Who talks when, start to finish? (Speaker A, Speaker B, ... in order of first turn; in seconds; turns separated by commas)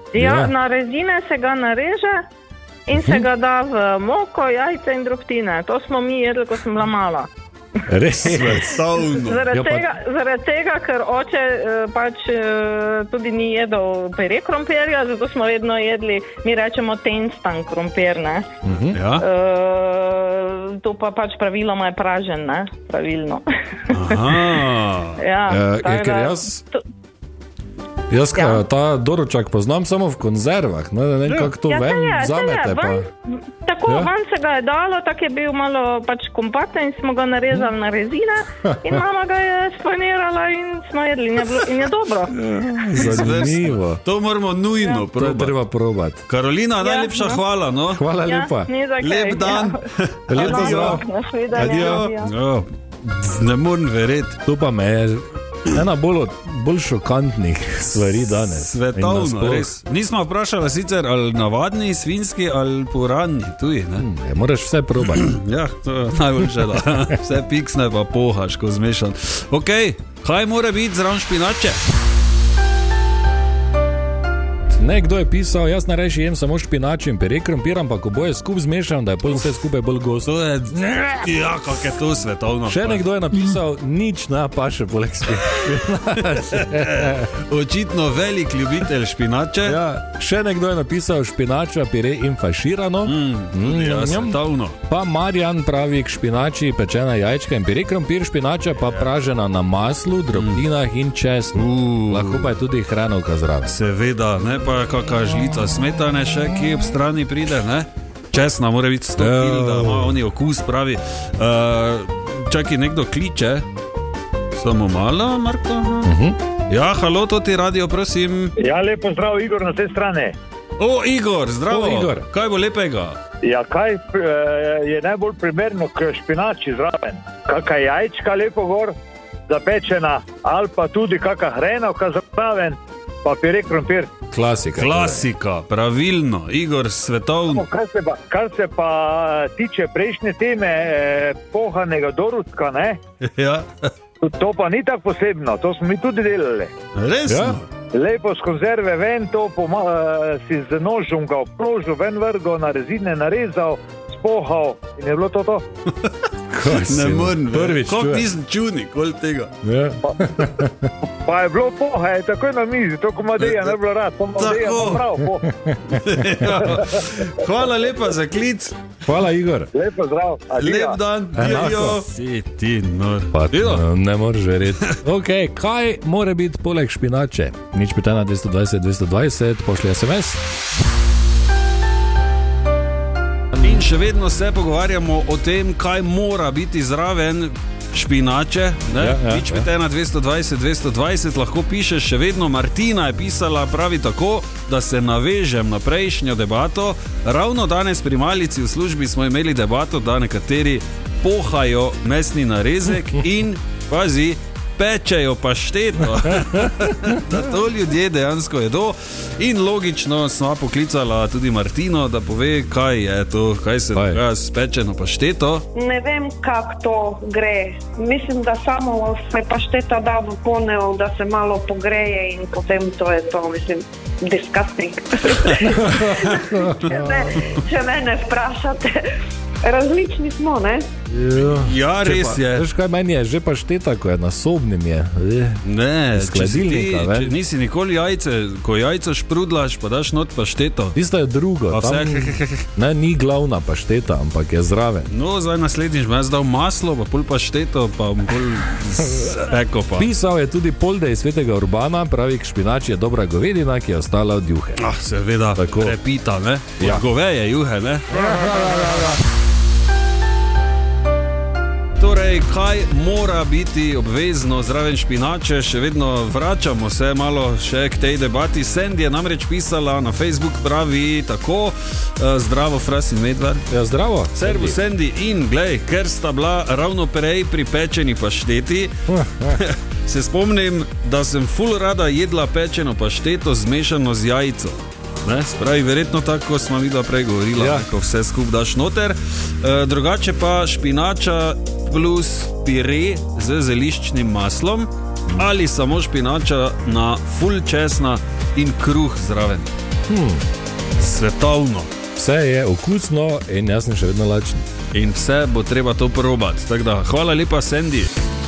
Speaker A: 0.1-2.2, Speaker B: 0.2-0.5, Speaker A: 2.9-7.3, Speaker B: 3.0-3.2, Speaker B: 7.9-8.8, Speaker C: 8.2-9.4, Speaker A: 9.2-18.5, Speaker B: 9.5-9.9, Speaker B: 18.6-19.0, Speaker C: 18.9-19.2, Speaker A: 19.2-24.3, Speaker C: 23.9-25.2, Speaker A: 25.2-26.8, Speaker B: 25.5-26.6, Speaker B: 28.1-33.1, Speaker A: 28.4-28.6, Speaker A: 31.7-33.1, Speaker A: 33.6-42.4, Speaker B: 38.6-39.0, Speaker B: 42.4-44.0, Speaker C: 42.9-45.6, Speaker B: 45.1-46.2, Speaker C: 46.3-48.0, Speaker A: 46.8-47.4, Speaker B: 47.9-48.7, Speaker A: 48.3-49.8, Speaker C: 49.0-51.0, Speaker B: 50.3-51.0, Speaker A: 50.4-52.3, Speaker C: 51.5-54.4, Speaker B: 51.6-52.1, Speaker B: 54.5-59.7, Speaker C: 58.0-64.1, Speaker B: 64.0-65.3, Speaker C: 65.1-71.8, Speaker B: 74.7-81.3, Speaker C: 80.2-83.0, Speaker B: 82.7-87.3, Speaker C: 86.5-89.8, Speaker B: 89.7-103.8, Speaker C: 93.0-94.8, Speaker C: 100.3-100.6, Speaker C: 101.5-102.5, Speaker C: 103.7-113.7, Speaker B: 109.2-110.2, Speaker C: 114.5-116.1, Speaker B: 116.0-116.4, Speaker C: 116.7-118.5, Speaker D: 118.6-120.4, Speaker C: 120.8-123.2, Speaker B: 121.7-122.3, Speaker D: 123.4-128.9, Speaker D: 129.5-134.1, Speaker B: 134.3-135.3, Speaker C: 134.8-137.7, Speaker D: 137.5-143.0, Speaker C: 143.2-143.9, Speaker D: 144.2-146.7, Speaker C: 146.9-147.7, Speaker B: 147.3-147.6, Speaker D: 147.9-155.6, Speaker B: 156.5-158.3, Speaker C: 156.7-159.5, Speaker B: 159.6-160.9, Speaker D: 160.1-160.4, Speaker D: 161.2-165.5, Speaker C: 163.4-163.8, Speaker C: 164.3-165.1, Speaker B: 165.5-165.8, Speaker C: 165.9-168.8, Speaker B: 169.0-169.7, Speaker D: 169.7-171.0, Speaker C: 170.6-173.9, Speaker B: 171.3-172.0, Speaker B: 173.3-180.4, Speaker C: 174.8-175.0, Speaker C: 183.6-215.7, Speaker B: 189.0-189.7, Speaker B: 206.2-207.2, Speaker B: 213.9-214.2, Speaker E: 215.8-229.0, Speaker C: 225.5-227.6, Speaker B: 225.7-227.2, Speaker E: 229.6-230.9, Speaker B: 231.1-235.6, Speaker C: 231.3-232.7, Speaker C: 235.6-241.0, Speaker B: 236.1-237.3, Speaker B: 240.9-245.1, Speaker C: 241.7-242.7, Speaker C: 245.1-250.1, Speaker B: 249.0-254.8, Speaker C: 254.8-259.2, Speaker B: 255.6-256.0, Speaker B: 256.8-257.1, Speaker B: 258.1-259.2, Speaker C: 262.0-273.6, Speaker B: 273.7-274.8, Speaker C: 274.3-299.7, Speaker B: 279.1-279.6, Speaker B: 287.6-287.9, Speaker B: 300.1-300.5, Speaker C: 301.0-301.9, Speaker B: 302.2-304.7, Speaker C: 304.9-308.1